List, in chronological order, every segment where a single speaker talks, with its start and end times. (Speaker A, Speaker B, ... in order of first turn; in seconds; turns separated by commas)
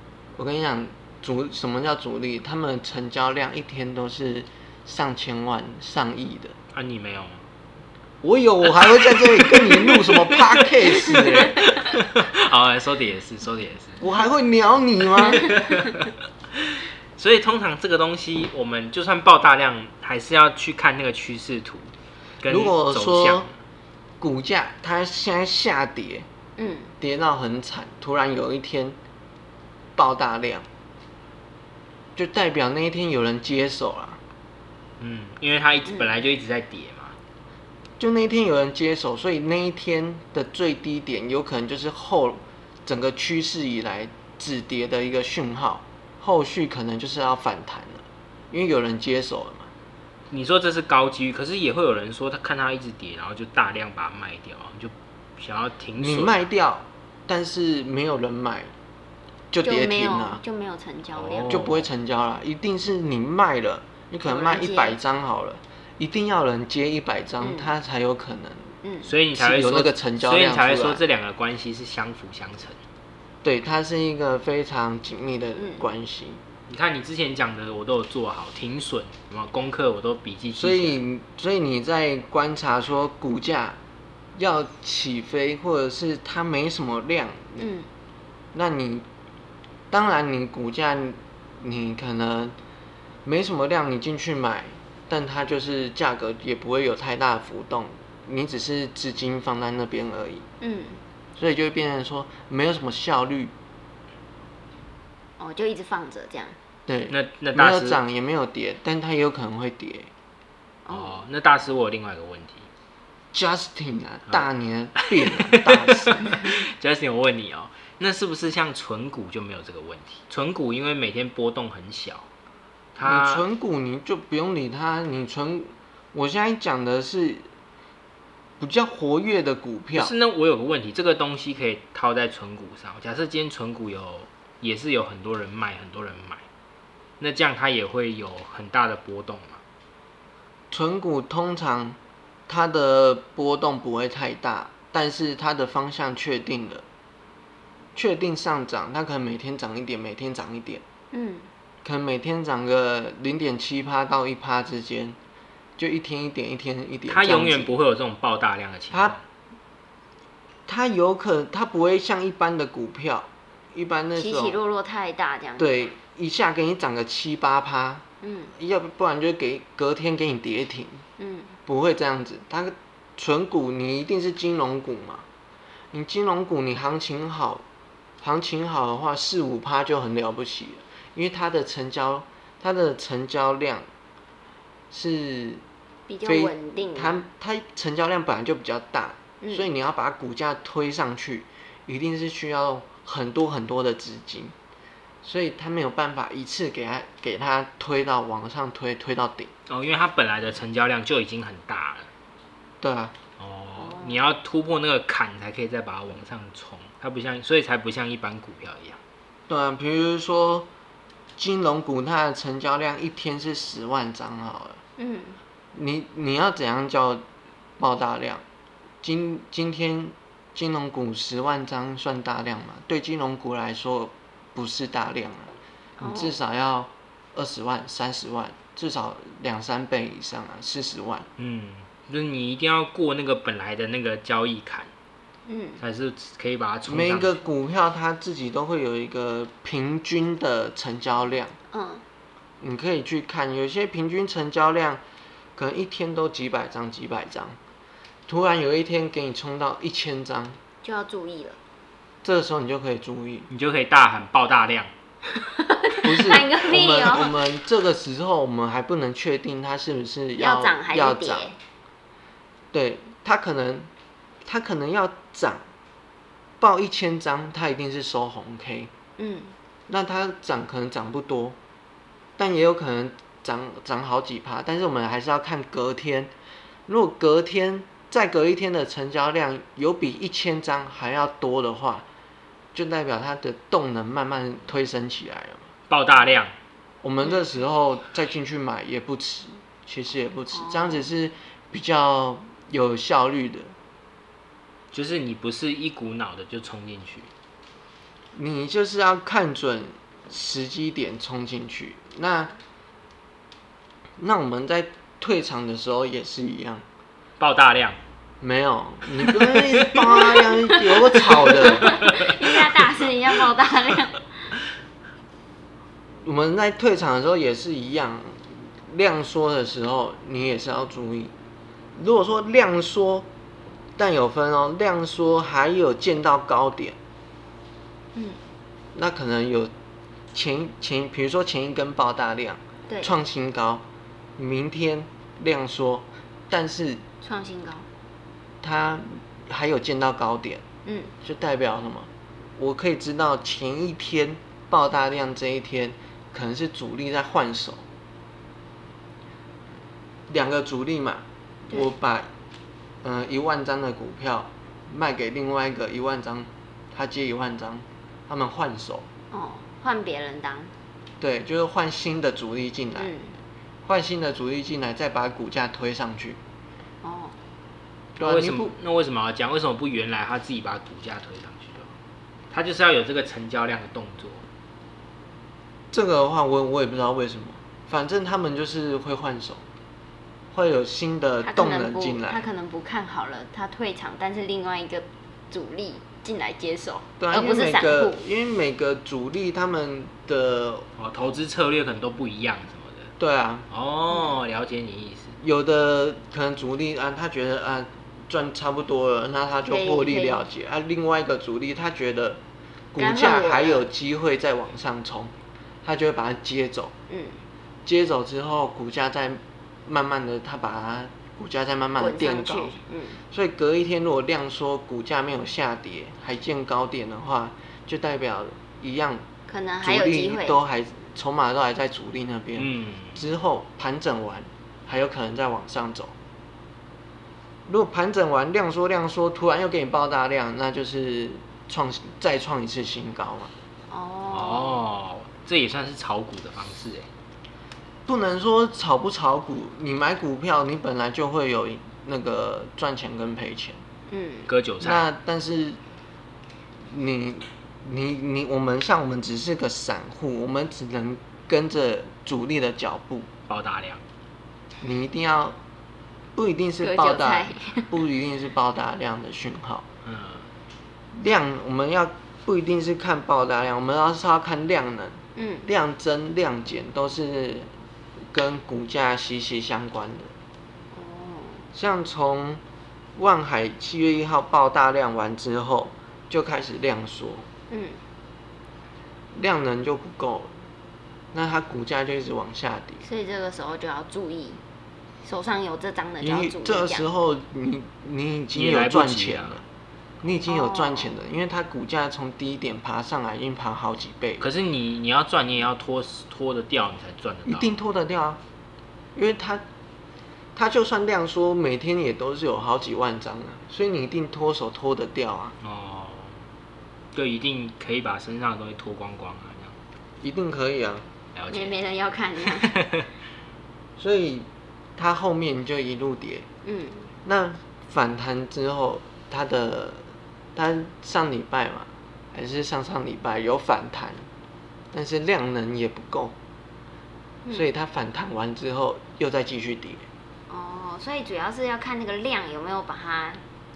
Speaker A: 0.3-6.5, Speaker B: 6.7-7.4, Speaker A: 8.2-11.6, Speaker B: 8.8-14.0, Speaker A: 14.0-15.6, Speaker B: 15.2-21.9, Speaker B: 22.4-23.5, Speaker A: 22.4-23.5, Speaker A: 24.2-26.2, Speaker C: 26.6-26.9, Speaker A: 27.0-28.9, Speaker A: 29.9-30.6, Speaker A: 32.1-34.2, Speaker B: 35.0-37.1, Speaker C: 35.9-36.2, Speaker A: 38.0-49.7, Speaker B: 50.3-56.5, Speaker A: 56.0-58.7, Speaker A: 59.5-60.4, Speaker C: 59.6-61.6, Speaker B: 61.1-61.9, Speaker A: 61.5-68.7, Speaker C: 64.2-65.0, Speaker C: 67.4-67.7, Speaker C: 68.8-69.1, Speaker B: 69.0-72.8, Speaker A: 69.3-71.0, Speaker A: 73.4-76.4, Speaker C: 75.5-75.8, Speaker B: 76.7-81.0, Speaker A: 80.5-83.8, Speaker A: 84.3-87.6, Speaker C: 87.6-87.9, Speaker A: 88.5-89.0, Speaker A: 89.9-92.5, Speaker A: 93.2-100.5, Speaker C: 100.6-101.0, Speaker A: 101.4-103.5, Speaker C: 105.4-106.5, Speaker A: 106.9-110.1, Speaker B: 107.1-108.0, Speaker C: 110.8-111.2, Speaker B: 110.9-112.7, Speaker A: 113.3-116.4, Speaker B: 115.2-122.2, Speaker B: 123.0-123.4, Speaker A: 123.0-127.5, Speaker A: 128.6-130.1, Speaker B: 129.9-136.4, Speaker B: 137.2-139.6, Speaker A: 140.7-146.8, Speaker A: 147.9-150.8, Speaker C: 151.1-151.5, Speaker A: 151.8-155.2, Speaker A: 155.8-157.7, Speaker B: 157.1-159.2, Speaker A: 158.9-159.2, Speaker A: 160.7-164.6, Speaker C: 164.2-165.9, Speaker A: 165.6-168.0, Speaker C: 168.2-168.5, Speaker A: 168.6-171.0, Speaker C: 171.2-171.6, Speaker A: 171.7-175.2, Speaker A: 175.9-177.6, Speaker A: 178.2-183.8, Speaker A: 184.9-185.6, Speaker C: 186.1-187.2, Speaker A: 186.2-194.5, Speaker C: 189.4-189.7, Speaker A: 195.2-199.5, Speaker B: 199.7-202.1, Speaker A: 202.8-203.1, Speaker B: 203.4-209.0, Speaker C: 203.8-204.2, Speaker A: 209.5-210.7, Speaker A: 211.4-214.8, Speaker C: 215.0-215.4, Speaker A: 215.7-217.2, Speaker A: 217.8-218.4, Speaker A: 219.0-231.3, Speaker C: 226.0-226.4, Speaker B: 231.4-234.9, Speaker C: 235.5-235.8, Speaker B: 235.8-237.4, Speaker A: 236.8-241.5, Speaker C: 241.7-242.0, Speaker A: 242.6-245.0, Speaker A: 245.6-247.6, Speaker A: 248.3-250.6, Speaker C: 250.8-251.6, Speaker A: 252.2-253.5, Speaker B: 253.5-254.9, Speaker C: 255.4-257.3, Speaker A: 256.0-261.5, Speaker C: 260.4-261.6, Speaker A: 262.7-263.9, Speaker A: 264.4-265.6, Speaker A: 266.6-268.9, Speaker C: 269.2-269.5, Speaker A: 269.9-271.6, Speaker A: 272.4-276.3, Speaker A: 276.9-282.1, Speaker A: 282.7-285.7, Speaker B: 285.9-286.5, Speaker A: 287.0-293.7, Speaker C: 290.5-291.1, Speaker B: 294.9-297.3, Speaker A: 298.3-302.6, Speaker A: 304.2-306.8, Speaker B: 307.4-308.0, Speaker A: 308.4-312.0, Speaker B: 309.2-310.3, Speaker C: 311.4-314.2, Speaker B: 311.8-312.2, Speaker A: 316.2-321.3, Speaker A: 321.9-323.3, Speaker A: 324.0-326.9, Speaker C: 328.1-328.4, Speaker A: 328.9-329.7, Speaker A: 330.3-333.8, Speaker C: 332.9-333.2, Speaker A: 334.4-337.0, Speaker C: 337.2-337.9, Speaker A: 338.6-340.6, Speaker C: 340.8-341.1, Speaker A: 341.2-347.8, Speaker A: 350.3-352.3, Speaker A: 353.0-359.1, Speaker C: 359.3-360.7, Speaker A: 361.2-363.1, Speaker C: 362.9-363.3, Speaker A: 363.8-366.4, Speaker C: 367.0-367.4, Speaker B: 368.2-371.9, Speaker A: 368.2-368.7, Speaker B: 372.5-374.4, Speaker A: 375.9-379.6, Speaker A: 380.5-382.5, Speaker C: 381.4-388.2, Speaker A: 387.2-390.9, Speaker B: 391.0-393.1, Speaker A: 393.2-393.7, Speaker B: 393.7-395.4, Speaker A: 395.4-402.4, Speaker C: 399.6-400.4, Speaker A: 402.9-405.3, Speaker C: 402.9-403.9, Speaker A: 405.8-406.9, Speaker C: 407.1-407.4, Speaker A: 407.8-412.8, Speaker C: 412.0-413.2, Speaker A: 413.3-419.2, Speaker C: 419.5-420.6, Speaker A: 419.8-426.1, Speaker B: 422.6-423.2, Speaker A: 427.6-433.5, Speaker C: 433.9-434.8, Speaker B: 434.3-437.1, Speaker A: 438.1-443.8, Speaker C: 444.1-444.5, Speaker B: 444.5-445.1, Speaker A: 444.8-445.8, Speaker A: 446.8-453.3, Speaker B: 453.5-454.0, Speaker A: 454.8-455.6, Speaker A: 456.4-459.9, Speaker C: 456.8-457.9, Speaker B: 460.0-460.5, Speaker A: 461.1-467.7, Speaker C: 465.4-465.7, Speaker A: 468.3-470.3, Speaker C: 470.9-471.7, Speaker A: 471.7-472.6, Speaker A: 473.2-477.5, Speaker C: 477.7-478.0, Speaker A: 479.3-480.5, Speaker A: 481.3-483.0, Speaker C: 483.0-484.6, Speaker C: 485.2-487.1, Speaker A: 486.2-489.6, Speaker B: 488.5-489.6, Speaker A: 490.2-494.5, Speaker C: 490.4-491.2, Speaker B: 494.4-497.8, Speaker A: 497.4-498.4, Speaker A: 499.1-499.6, Speaker A: 500.5-505.5, Speaker B: 505.6-506.4, Speaker B: 507.1-509.7, Speaker A: 510.2-511.0, Speaker B: 511.3-511.8, Speaker C: 511.5-512.8, Speaker B: 512.6-513.0, Speaker A: 514.0-516.5, Speaker C: 516.6-517.1, Speaker A: 517.2-524.3, Speaker A: 524.9-526.3, Speaker A: 527.5-530.1, Speaker C: 530.5-533.4